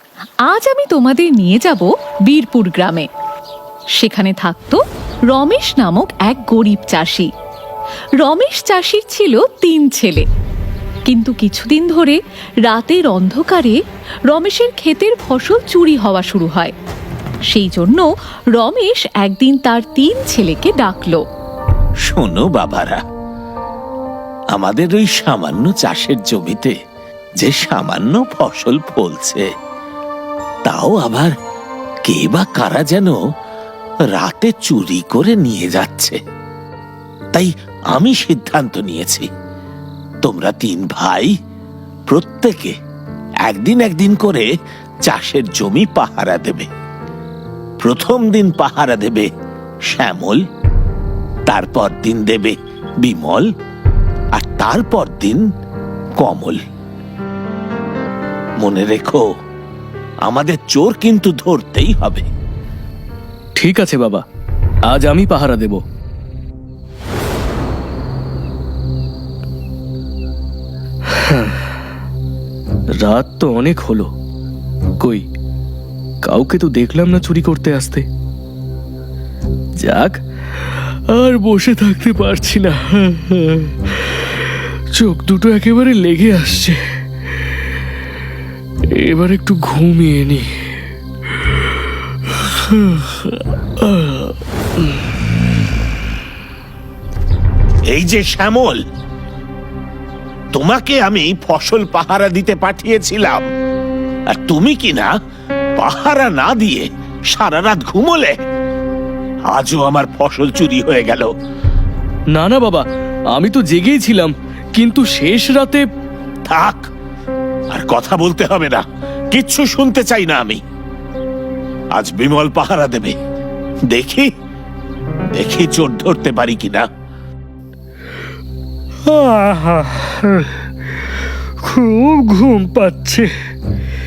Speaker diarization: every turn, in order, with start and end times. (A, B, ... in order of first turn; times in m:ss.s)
0:00.5-0:03.1 A
0:04.0-0:07.3 A
0:08.2-0:10.3 A
0:11.1-0:13.8 A
0:14.3-0:16.7 A
0:17.5-0:18.1 A
0:18.6-0:21.2 A
0:22.0-0:23.0 B
0:24.5-0:26.8 B
0:27.4-0:29.5 B
0:30.6-0:31.3 B
0:32.1-0:33.2 B
0:34.2-0:36.2 B
0:37.3-0:39.3 B
0:40.2-0:41.3 B
0:42.1-0:42.8 B
0:43.4-0:44.5 B
0:45.1-0:46.7 B
0:47.8-0:49.3 B
0:49.9-0:50.4 B
0:51.5-0:53.5 B
0:54.4-0:55.4 B
0:56.2-0:56.6 B
0:58.6-0:59.2 B
1:00.2-1:02.3 B
1:03.6-1:04.2 C
1:04.9-1:05.8 C
1:13.0-1:14.1 C
1:15.0-1:15.2 C
1:16.2-1:18.0 C
1:19.8-1:20.2 C
1:21.1-1:23.7 C
1:25.0-1:26.8 C
1:29.0-1:30.5 C
1:37.9-1:38.8 B
1:40.5-1:43.5 B
1:44.3-1:45.1 B
1:45.8-1:48.4 B
1:49.5-1:51.3 B
1:52.3-1:55.8 C
1:56.4-1:56.9 B
1:57.7-2:00.6 B
2:01.9-2:03.2 B
2:03.9-2:04.3 B
2:05.3-2:06.9 B
2:09.1-2:10.1 D
2:11.6-2:13.3 D